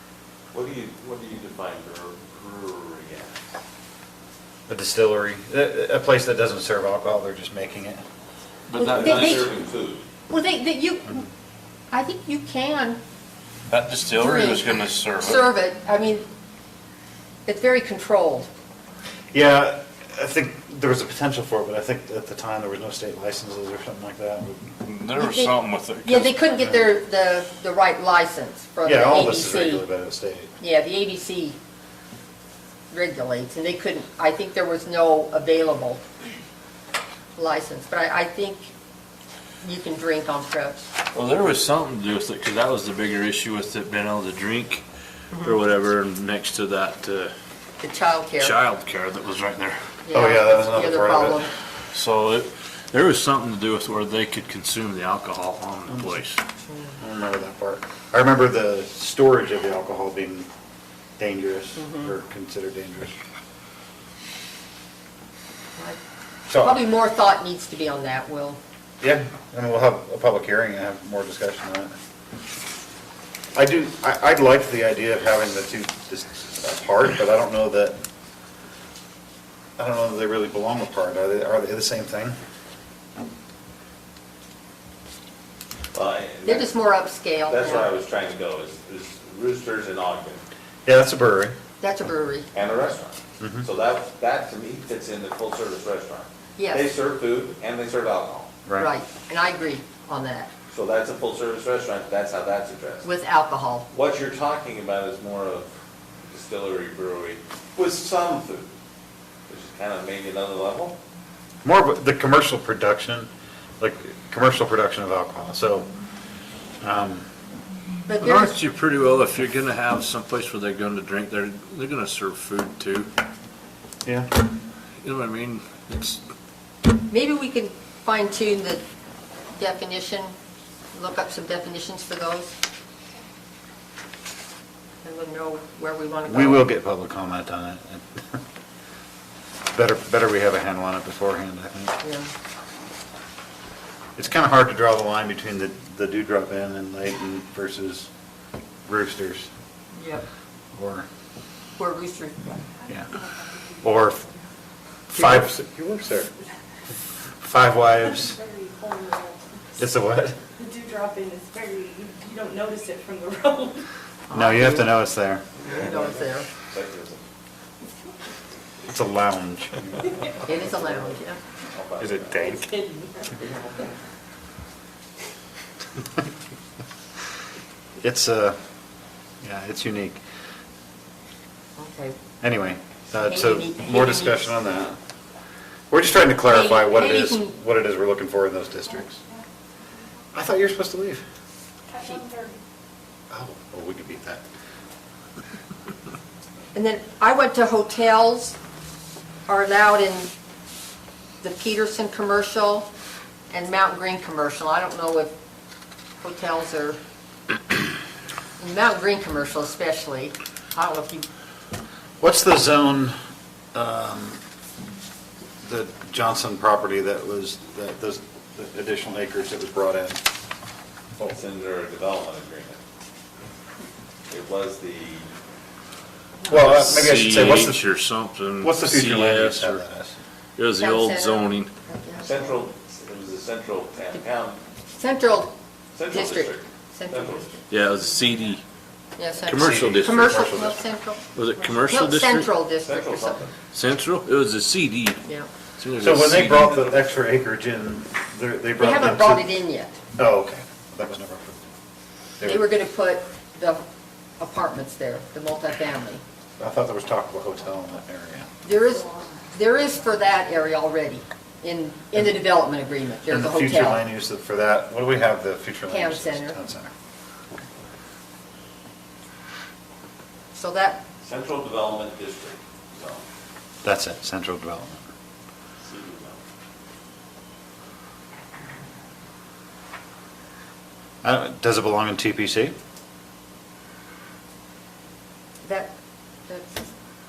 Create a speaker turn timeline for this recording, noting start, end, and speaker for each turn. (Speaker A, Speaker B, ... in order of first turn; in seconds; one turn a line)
Speaker A: 0.5-3.3
Speaker B: 4.7-8.0
Speaker C: 8.7-9.5
Speaker D: 8.8-9.5
Speaker A: 8.9-10.1
Speaker D: 10.3-11.2
Speaker D: 11.9-13.0
Speaker C: 13.7-15.5
Speaker D: 14.1-16.2
Speaker D: 17.5-18.5
Speaker B: 19.3-24.8
Speaker C: 24.8-26.4
Speaker D: 25.2-29.9
Speaker B: 28.8-30.5
Speaker D: 30.6-31.6
Speaker D: 32.9-36.0
Speaker D: 37.4-38.7
Speaker D: 39.6-40.9
Speaker C: 41.1-44.8
Speaker C: 45.4-47.3
Speaker D: 47.8-48.6
Speaker C: 48.4-49.8
Speaker D: 50.1-51.5
Speaker B: 50.1-51.5
Speaker C: 51.9-56.4
Speaker B: 55.9-56.2
Speaker D: 56.7-57.0
Speaker B: 57.0-60.5
Speaker B: 61.2-63.1
Speaker D: 61.8-62.1
Speaker B: 66.5-66.8
Speaker D: 66.5-68.6
Speaker B: 69.0-71.9
Speaker B: 73.5-78.0
Speaker B: 79.8-82.4
Speaker A: 85.9-86.8
Speaker D: 86.5-87.9
Speaker A: 87.5-90.4
Speaker B: 90.9-91.5
Speaker D: 91.8-92.5
Speaker A: 92.5-98.5
Speaker D: 96.6-96.9
Speaker D: 98.8-100.5
Speaker A: 100.7-103.1
Speaker D: 103.0-103.9
Speaker A: 103.9-105.7
Speaker A: 106.3-108.7
Speaker A: 109.5-111.0
Speaker B: 111.6-113.3
Speaker B: 113.8-115.9
Speaker B: 116.8-117.3
Speaker D: 118.1-118.6
Speaker C: 118.2-123.1
Speaker C: 125.0-126.2
Speaker D: 127.1-128.8
Speaker D: 129.6-130.3
Speaker D: 130.9-132.5
Speaker D: 135.0-136.7
Speaker B: 136.3-138.4
Speaker B: 139.7-141.9
Speaker D: 142.0-142.3
Speaker B: 144.2-148.1
Speaker B: 148.9-149.5
Speaker D: 149.9-150.2
Speaker B: 150.7-151.1
Speaker D: 151.8-152.6
Speaker B: 153.8-154.2
Speaker B: 155.1-156.3
Speaker D: 155.2-155.4
Speaker B: 157.4-158.4
Speaker E: 158.4-159.4
Speaker B: 159.8-160.4
Speaker E: 160.6-163.8
Speaker D: 164.3-164.9
Speaker B: 164.3-165.4
Speaker A: 165.6-167.2
Speaker D: 165.7-166.5
Speaker B: 168.9-170.2
Speaker D: 170.4-171.4
Speaker A: 170.7-172.5
Speaker B: 172.0-172.7
Speaker A: 173.4-173.9
Speaker B: 178.0-178.6
Speaker B: 179.4-180.2
Speaker D: 181.8-182.2
Speaker B: 182.4-185.0
Speaker D: 183.2-184.6
Speaker B: 185.9-189.2
Speaker D: 186.5-187.5
Speaker B: 190.3-191.2
Speaker E: 192.0-192.4
Speaker B: 193.3-194.4
Speaker D: 196.7-198.6
Speaker D: 199.5-200.3
Speaker D: 201.4-202.9
Speaker D: 203.5-205.3
Speaker D: 206.2-207.0
Speaker D: 208.6-211.3
Speaker B: 212.2-213.2
Speaker B: 213.7-214.4
Speaker B: 215.6-220.2
Speaker A: 221.3-222.8
Speaker A: 224.3-225.3
Speaker B: 226.5-227.8
Speaker C: 226.5-229.8
Speaker B: 228.6-230.2
Speaker C: 230.6-231.7
Speaker D: 230.8-232.5
Speaker A: 232.2-234.6
Speaker D: 234.9-235.5
Speaker A: 235.9-237.6
Speaker D: 236.1-237.6
Speaker C: 237.7-238.6
Speaker D: 239.2-241.2
Speaker C: 239.5-240.5
Speaker B: 239.5-240.8
Speaker C: 241.3-242.5
Speaker D: 241.8-243.4
Speaker A: 242.8-243.6
Speaker C: 243.7-245.2
Speaker C: 245.8-246.7
Speaker B: 246.0-249.5
Speaker A: 246.5-247.3
Speaker D: 248.8-250.0
Speaker B: 250.2-251.7
Speaker B: 252.4-252.7
Speaker D: 252.4-253.8
Speaker D: 254.4-256.2
Speaker B: 256.6-258.5
Speaker D: 258.6-264.0
Speaker B: 263.3-266.9
Speaker D: 265.9-266.6
Speaker D: 270.5-271.0
Speaker A: 271.2-273.2
Speaker B: 273.8-275.1
Speaker A: 275.9-276.4
Speaker B: 281.2-282.8
Speaker D: 285.6-285.9
Speaker D: 286.5-286.9